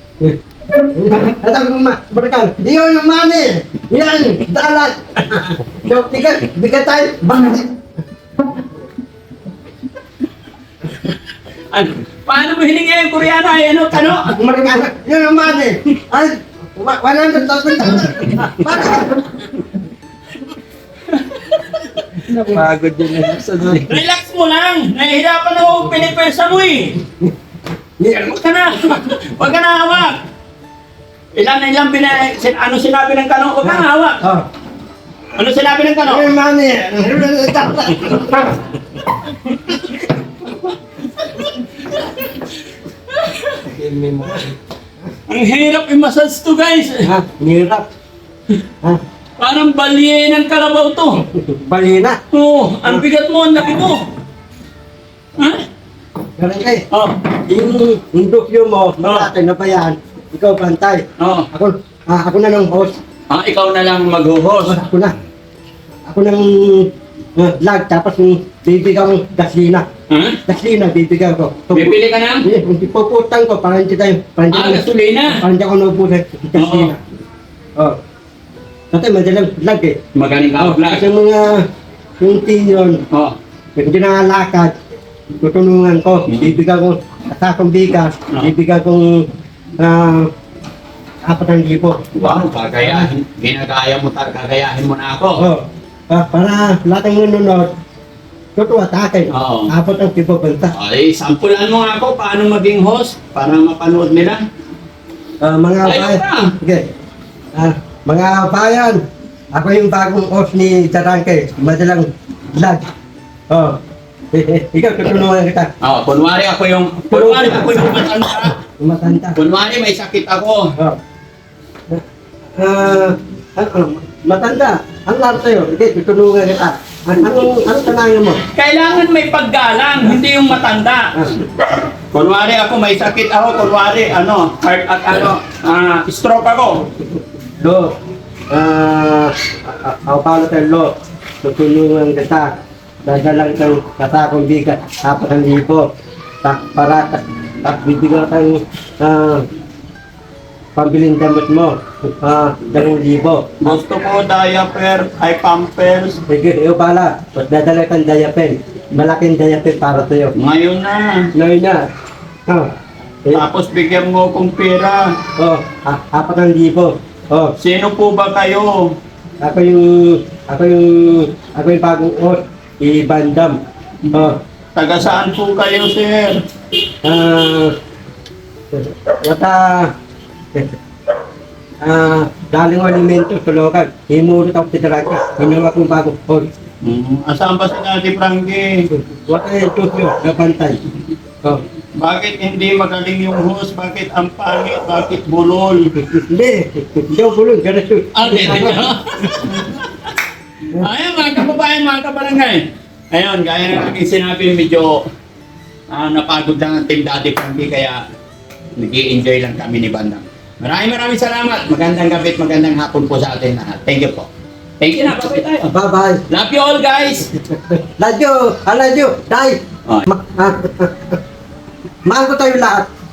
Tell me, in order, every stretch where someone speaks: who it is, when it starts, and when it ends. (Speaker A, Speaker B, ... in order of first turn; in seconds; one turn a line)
Speaker A: 0.2-7.7
Speaker B: 10.8-14.4
Speaker A: 14.2-19.3
Speaker B: 21.1-22.5
Speaker C: 22.3-23.8
Speaker B: 23.7-27.0
Speaker B: 28.0-30.2
Speaker B: 31.3-34.2
Speaker A: 33.6-34.5
Speaker B: 35.3-36.3
Speaker A: 36.0-38.8
Speaker B: 38.0-38.3
Speaker B: 39.6-39.9
Speaker B: 41.0-43.7
Speaker C: 43.7-44.5
Speaker B: 45.3-47.1
Speaker A: 47.0-47.9
Speaker B: 49.4-51.2
Speaker A: 51.3-52.2
Speaker B: 52.3-54.1
Speaker B: 55.4-55.6
Speaker A: 56.4-56.8
Speaker B: 56.9-57.3
Speaker A: 57.5-63.0
Speaker B: 59.0-59.3
Speaker B: 61.2-61.5
Speaker B: 63.3-64.8
Speaker A: 64.6-65.1
Speaker A: 66.1-69.9
Speaker B: 70.1-70.4
Speaker A: 70.5-77.0
Speaker B: 71.7-72.5
Speaker B: 74.5-75.4
Speaker B: 76.5-76.9
Speaker A: 78.9-80.0
Speaker B: 80.1-81.1
Speaker A: 80.6-81.7
Speaker A: 82.2-83.0
Speaker A: 83.8-84.7
Speaker A: 85.4-89.3
Speaker B: 86.3-86.5
Speaker A: 89.8-90.3
Speaker A: 91.2-93.1
Speaker B: 92.1-95.4
Speaker A: 95.4-97.7
Speaker A: 98.5-100.7
Speaker B: 99.3-99.7
Speaker B: 100.7-104.4
Speaker A: 105.4-106.9
Speaker B: 105.8-106.5
Speaker A: 107.5-109.0
Speaker A: 109.5-112.9
Speaker A: 113.5-113.8
Speaker A: 114.3-115.7
Speaker B: 115.8-118.5
Speaker A: 117.1-119.4
Speaker B: 119.3-120.7
Speaker A: 122.6-128.4
Speaker B: 128.5-136.9
Speaker A: 137.6-137.9
Speaker A: 138.5-140.9
Speaker A: 141.4-142.5
Speaker A: 143.0-145.8
Speaker A: 146.4-149.5
Speaker A: 150.8-153.8
Speaker B: 153.6-156.2
Speaker A: 156.3-160.3
Speaker B: 160.3-161.3
Speaker A: 161.3-161.8
Speaker B: 163.3-165.1
Speaker A: 165.4-167.5
Speaker B: 167.6-168.9
Speaker A: 169.4-173.6
Speaker A: 174.1-174.4
Speaker B: 174.8-176.4
Speaker A: 177.0-177.8
Speaker A: 178.7-179.9
Speaker A: 181.8-186.5
Speaker B: 186.8-188.9
Speaker A: 188.9-190.8
Speaker B: 191.9-195.9
Speaker A: 196.0-199.5
Speaker B: 198.1-200.1
Speaker B: 200.7-205.0
Speaker B: 205.9-208.0
Speaker B: 208.8-215.7
Speaker A: 215.7-216.2
Speaker B: 216.3-217.4
Speaker A: 217.7-221.2
Speaker A: 222.1-222.9